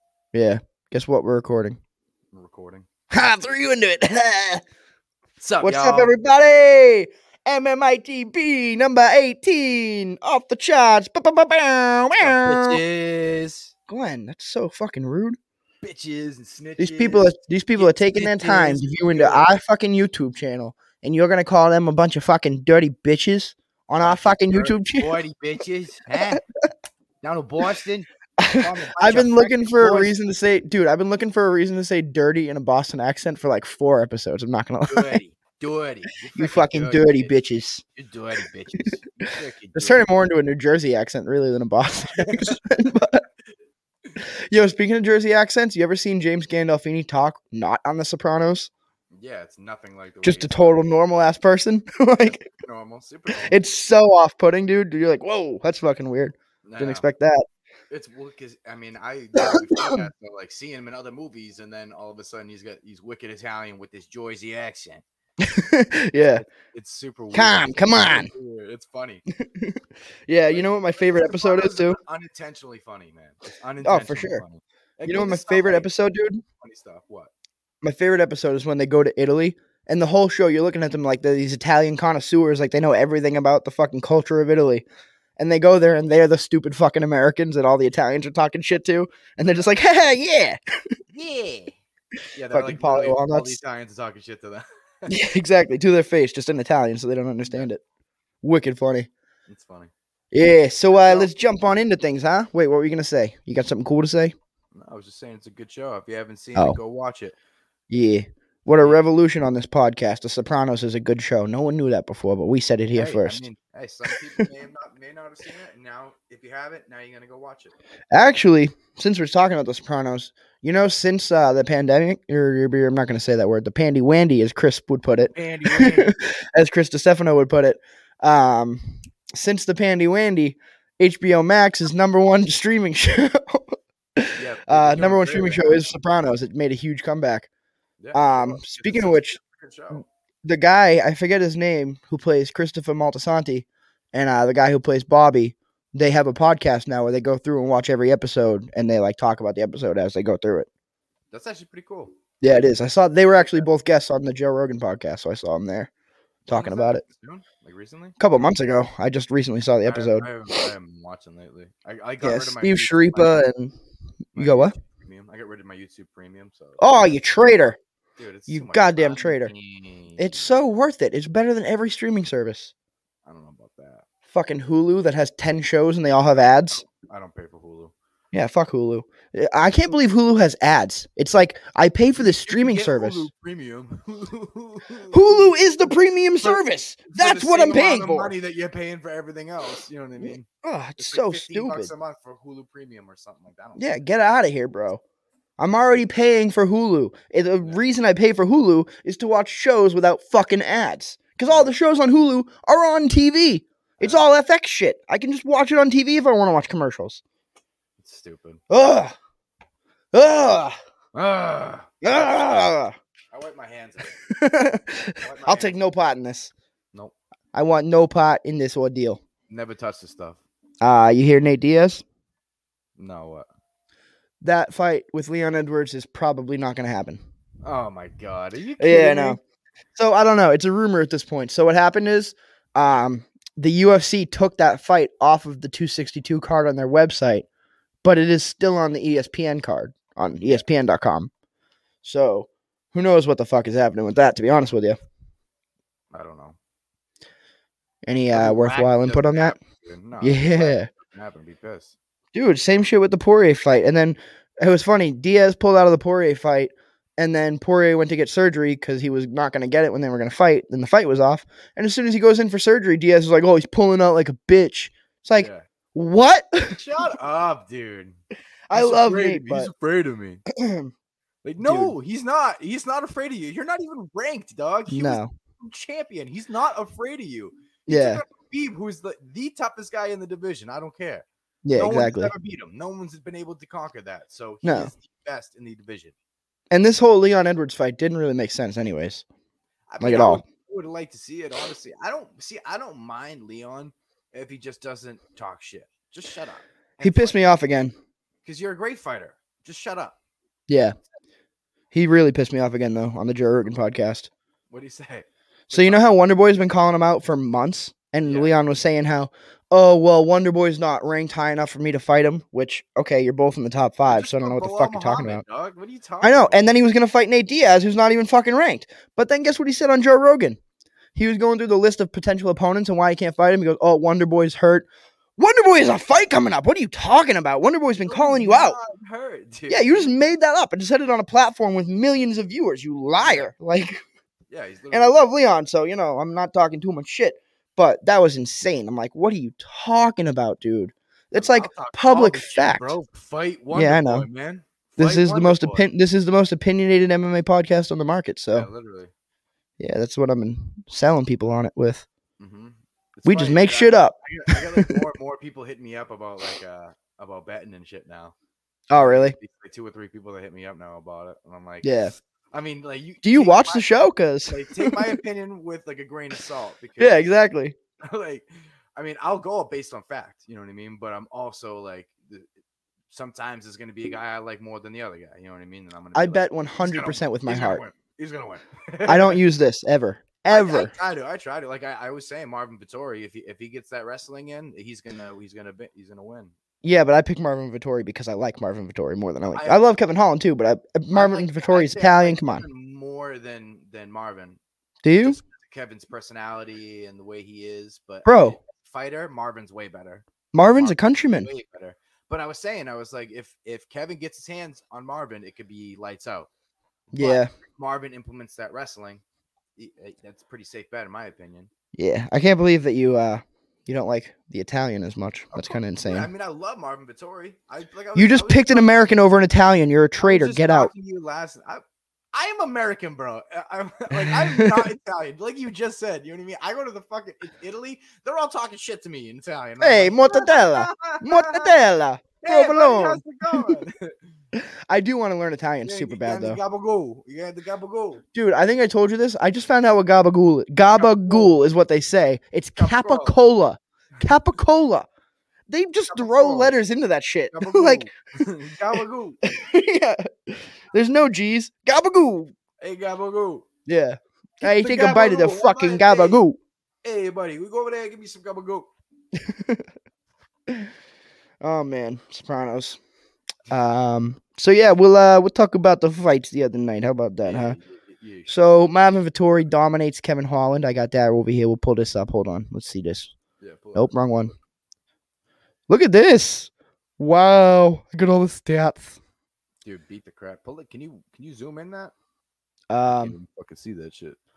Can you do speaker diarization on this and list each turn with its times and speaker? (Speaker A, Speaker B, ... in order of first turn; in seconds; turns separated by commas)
Speaker A: 0.3-1.8, Speaker B: 2.3-2.9, Speaker A: 3.1-4.6, Speaker B: 5.4-6.1, Speaker A: 5.6-12.8, Speaker B: 12.2-13.7, Speaker A: 13.9-15.4, Speaker B: 15.8-19.5, Speaker A: 16.8-25.1, Speaker B: 24.0-26.4, Speaker B: 27.2-30.1, Speaker A: 28.4-35.2, Speaker B: 34.9-37.4, Speaker A: 36.4-37.8, Speaker B: 38.0-40.1, Speaker A: 39.8-43.2, Speaker B: 42.1-42.6, Speaker A: 44.2-48.7, Speaker B: 49.1-50.8, Speaker A: 50.2-52.4, Speaker B: 52.2-53.6, Speaker A: 53.3-57.4, Speaker B: 56.6-57.1, Speaker B: 57.9-65.0, Speaker A: 59.4-60.1, Speaker A: 65.4-66.4, Speaker B: 66.3-69.2, Speaker A: 67.3-68.3, Speaker A: 69.3-72.0, Speaker B: 70.5-75.9, Speaker A: 73.8-74.4, Speaker A: 75.1-76.4, Speaker B: 76.6-77.3, Speaker A: 77.8-84.8, Speaker A: 85.4-90.6, Speaker B: 89.5-89.7, Speaker B: 91.1-91.8, Speaker B: 92.3-95.2, Speaker A: 92.5-93.6, Speaker A: 95.1-97.8, Speaker B: 97.5-97.7, Speaker A: 98.4-99.1, Speaker B: 99.5-99.9, Speaker A: 100.3-104.3, Speaker B: 100.9-101.3, Speaker B: 104.7-107.3, Speaker A: 107.9-113.4, Speaker B: 108.7-109.0, Speaker B: 113.0-117.8, Speaker A: 118.1-137.5, Speaker B: 125.3-126.2, Speaker B: 134.4-135.9, Speaker B: 138.0-140.1, Speaker A: 138.1-139.4, Speaker A: 140.4-150.7, Speaker B: 151.3-152.2, Speaker A: 152.4-155.9, Speaker B: 153.3-153.6, Speaker A: 156.5-157.0, Speaker B: 156.5-158.2, Speaker A: 158.2-160.3, Speaker B: 159.8-163.4, Speaker A: 162.2-163.7, Speaker B: 164.3-166.8, Speaker A: 164.4-164.7, Speaker A: 166.8-167.8, Speaker B: 168.2-170.5, Speaker A: 168.5-169.5, Speaker A: 170.2-172.7, Speaker B: 173.3-174.1, Speaker A: 174.3-176.8, Speaker B: 176.8-177.9, Speaker A: 178.3-183.3, Speaker B: 182.2-185.9, Speaker A: 185.1-188.3, Speaker B: 186.4-190.5, Speaker A: 190.2-191.9, Speaker B: 191.0-194.0, Speaker A: 193.8-195.0, Speaker A: 195.6-207.2, Speaker B: 204.0-204.3, Speaker B: 208.0-208.6, Speaker A: 208.7-209.1, Speaker A: 210.1-210.8, Speaker B: 211.2-212.3, Speaker A: 212.0-212.9, Speaker B: 213.3-214.2, Speaker A: 214.3-216.5, Speaker B: 215.2-215.7, Speaker A: 217.5-219.2, Speaker B: 219.5-220.4, Speaker A: 220.8-222.0, Speaker B: 223.0-223.5, Speaker A: 224.4-227.2, Speaker B: 227.6-229.4, Speaker A: 228.8-229.4, Speaker A: 230.0-237.5, Speaker A: 238.0-241.3, Speaker B: 240.4-240.7, Speaker A: 242.0-245.0, Speaker B: 246.1-246.6, Speaker A: 248.1-249.6, Speaker B: 248.3-251.9, Speaker A: 250.2-250.9, Speaker A: 252.3-266.8, Speaker B: 265.4-265.6, Speaker B: 266.7-268.2, Speaker A: 268.7-269.7, Speaker B: 268.7-270.4, Speaker A: 270.5-270.9, Speaker B: 271.4-286.1, Speaker A: 271.6-271.9, Speaker A: 274.9-275.3, Speaker A: 277.9-278.2, Speaker A: 281.6-282.3, Speaker A: 284.6-284.9, Speaker A: 286.7-289.2, Speaker B: 289.9-297.5, Speaker A: 290.0-290.4, Speaker A: 297.0-297.9, Speaker B: 298.4-300.2, Speaker A: 300.7-301.0, Speaker A: 301.9-304.3, Speaker B: 304.7-306.2, Speaker A: 305.7-315.4, Speaker B: 308.2-308.6, Speaker B: 314.1-316.7, Speaker A: 316.2-320.6, Speaker A: 321.1-324.9, Speaker A: 325.4-328.8, Speaker B: 328.0-330.1, Speaker A: 329.7-334.0, Speaker B: 333.2-333.5, Speaker B: 334.5-335.2, Speaker A: 334.9-342.9, Speaker B: 341.3-345.9, Speaker A: 343.7-344.3, Speaker A: 345.0-348.7, Speaker B: 348.5-349.1, Speaker A: 349.8-352.1, Speaker B: 352.4-358.3, Speaker A: 353.3-355.0, Speaker A: 358.9-359.4, Speaker B: 358.9-363.9, Speaker A: 361.8-362.1, Speaker A: 363.2-365.2, Speaker B: 364.5-367.2, Speaker A: 367.0-367.8, Speaker B: 368.0-372.5, Speaker B: 373.1-379.4, Speaker A: 376.1-377.8, Speaker A: 379.1-380.9, Speaker B: 380.5-386.5, Speaker A: 386.8-392.6, Speaker B: 389.5-389.8, Speaker B: 391.1-394.6, Speaker A: 395.0-395.4, Speaker B: 395.2-406.5, Speaker A: 398.3-398.6, Speaker A: 400.5-401.5, Speaker B: 407.1-409.2, Speaker A: 407.1-407.5, Speaker B: 409.8-411.7, Speaker A: 411.9-416.3, Speaker B: 415.5-419.0, Speaker A: 418.2-420.9, Speaker B: 420.2-421.8, Speaker B: 422.3-431.8, Speaker A: 424.1-424.9, Speaker A: 429.8-433.8, Speaker B: 432.4-434.2, Speaker A: 434.6-436.6, Speaker B: 435.8-438.2, Speaker A: 438.4-445.1, Speaker B: 440.9-441.7, Speaker B: 442.8-443.3, Speaker A: 445.7-448.1, Speaker B: 446.1-446.7, Speaker B: 447.5-449.4, Speaker A: 449.0-452.5, Speaker B: 452.8-453.7, Speaker A: 453.9-456.6, Speaker B: 454.6-456.4, Speaker B: 457.0-458.9, Speaker A: 459.3-459.9, Speaker A: 461.6-463.0, Speaker A: 463.7-467.8, Speaker B: 467.4-468.6, Speaker A: 468.5-473.3, Speaker B: 473.6-474.5, Speaker A: 473.9-474.5, Speaker A: 475.9-479.2, Speaker B: 479.8-482.1, Speaker A: 482.9-483.4, Speaker B: 483.1-484.4